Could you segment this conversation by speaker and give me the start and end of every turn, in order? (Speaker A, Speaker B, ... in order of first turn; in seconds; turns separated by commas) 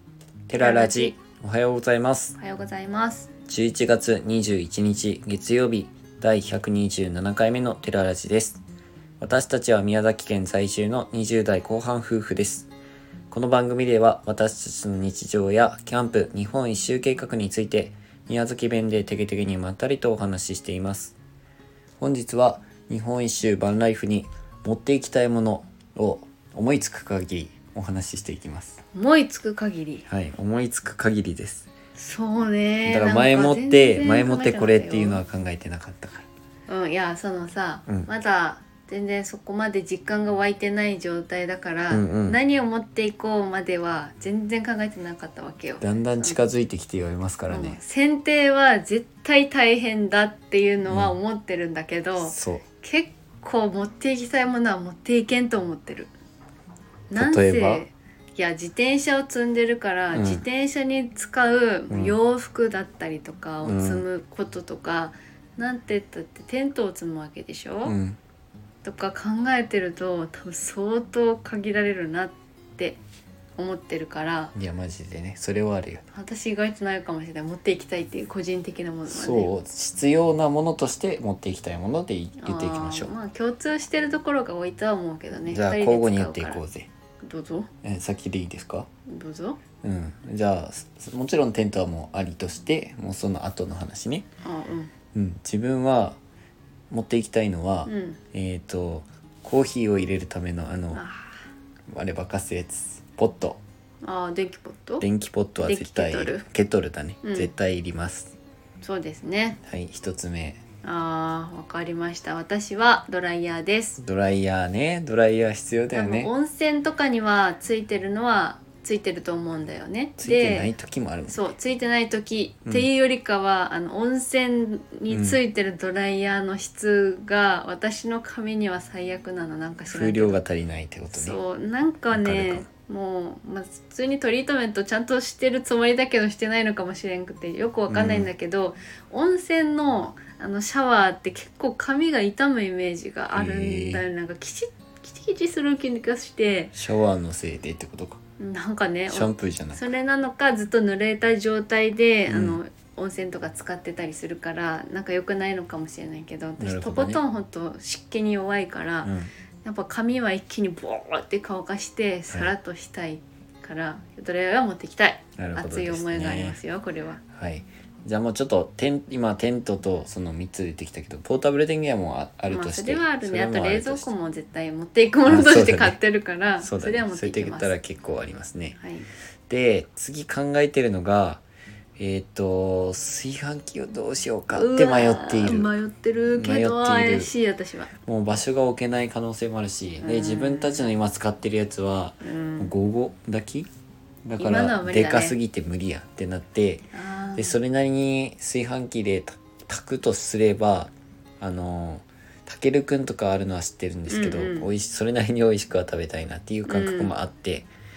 Speaker A: 0.5-2.4, Speaker B: 0.6-1.1, Speaker B: 2.4-3.3, Speaker A: 3.5-8.6, Speaker A: 9.2-12.7, Speaker A: 13.3-21.1, Speaker A: 22.0-28.8, Speaker B: 28.9-30.1, Speaker A: 30.1-31.7, Speaker B: 31.9-35.2, Speaker A: 32.9-36.3, Speaker B: 36.7-46.4, Speaker A: 41.9-42.4, Speaker A: 45.8-47.8, Speaker B: 47.5-56.1, Speaker A: 50.9-51.1, Speaker A: 52.2-52.6, Speaker B: 57.1-68.0, Speaker A: 57.1-57.8, Speaker A: 60.1-60.4, Speaker A: 61.9-62.1, Speaker A: 63.6-64.0, Speaker A: 67.8-68.2, Speaker B: 68.8-73.0, Speaker B: 73.6-74.5, Speaker A: 74.5-76.0, Speaker B: 76.1-79.5, Speaker A: 79.1-83.1, Speaker B: 82.4-86.6, Speaker A: 85.5-86.9, Speaker B: 87.2-87.7, Speaker A: 87.8-88.9, Speaker B: 89.1-89.6, Speaker A: 89.8-94.2, Speaker B: 94.4-94.9, Speaker A: 95.1-96.2, Speaker A: 96.9-101.0, Speaker B: 97.8-98.2, Speaker B: 100.9-101.3, Speaker A: 101.9-103.6, Speaker B: 104.0-105.0, Speaker A: 105.0-108.3, Speaker B: 105.6-106.4, Speaker B: 107.2-107.5, Speaker B: 108.8-109.6, Speaker A: 109.6-110.6, Speaker B: 110.8-114.0, Speaker A: 114.0-116.3, Speaker B: 115.9-120.7, Speaker A: 120.2-121.4, Speaker B: 121.3-130.4, Speaker A: 125.1-125.4, Speaker A: 129.9-131.4, Speaker B: 131.1-146.7, Speaker A: 132.1-132.7, Speaker A: 137.9-138.3, Speaker A: 143.3-144.0, Speaker A: 146.7-148.2, Speaker B: 148.4-167.2, Speaker A: 149.1-149.9, Speaker A: 152.3-152.6, Speaker A: 156.6-157.2, Speaker A: 159.0-159.3, Speaker A: 165.4-166.6, Speaker A: 167.3-174.1, Speaker B: 172.5-177.7, Speaker A: 175.2-176.0, Speaker A: 176.6-178.8, Speaker B: 178.8-179.1, Speaker A: 179.5-181.4, Speaker A: 182.0-185.7, Speaker B: 184.5-187.9, Speaker A: 186.3-187.3, Speaker A: 188.1-193.7, Speaker B: 190.0-190.9, Speaker B: 192.2-192.7, Speaker A: 194.2-207.7, Speaker B: 194.4-195.3, Speaker B: 196.9-197.6, Speaker B: 204.1-204.7, Speaker B: 206.7-207.1